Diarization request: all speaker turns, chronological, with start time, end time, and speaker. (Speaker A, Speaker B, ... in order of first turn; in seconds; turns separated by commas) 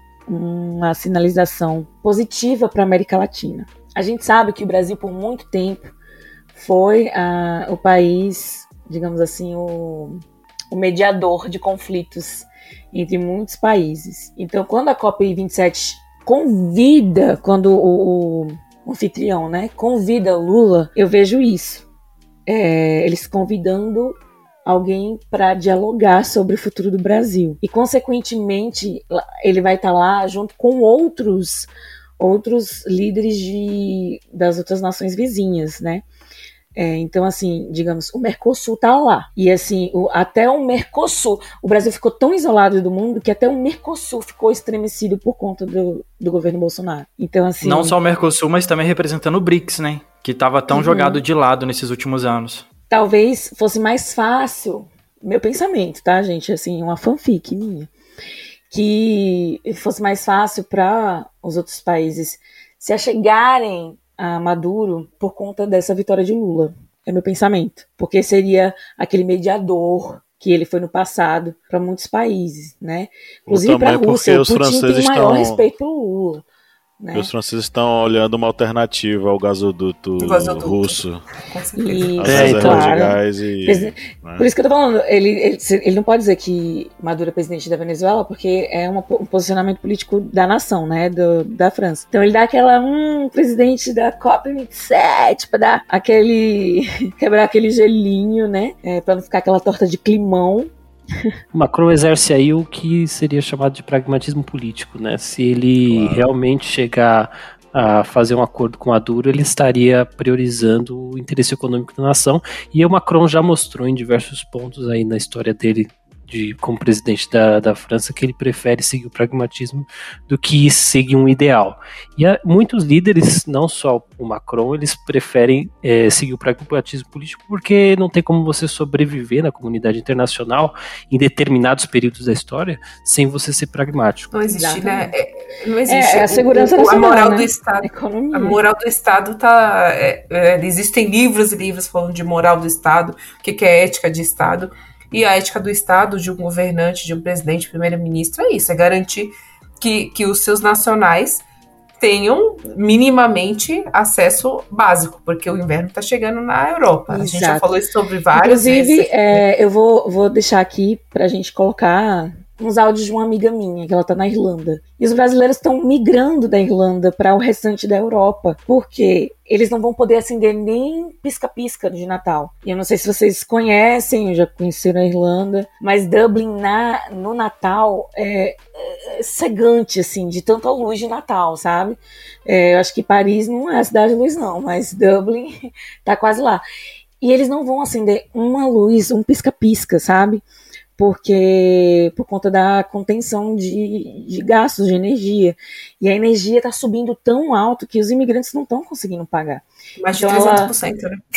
Speaker A: 0.3-5.9, Speaker A: 6.5-21.8, Speaker A: 22.5-36.0, Speaker A: 36.7-48.0, Speaker B: 47.6-52.6, Speaker A: 50.7-51.2, Speaker A: 52.9-57.9, Speaker A: 58.7-76.4, Speaker C: 73.5-75.7, Speaker A: 77.0-77.3, Speaker C: 77.1-81.2, Speaker D: 80.2-82.2, Speaker A: 81.8-100.7, Speaker C: 82.2-84.5, Speaker E: 82.2-82.9, Speaker E: 101.5-134.3, Speaker C: 105.8-106.3, Speaker D: 134.3-151.4, Speaker A: 134.5-135.1, Speaker A: 135.9-138.6, Speaker D: 152.0-159.4, Speaker A: 157.1-157.7, Speaker A: 158.3-186.6, Speaker A: 187.2-190.4, Speaker A: 191.0-200.7, Speaker D: 200.0-201.2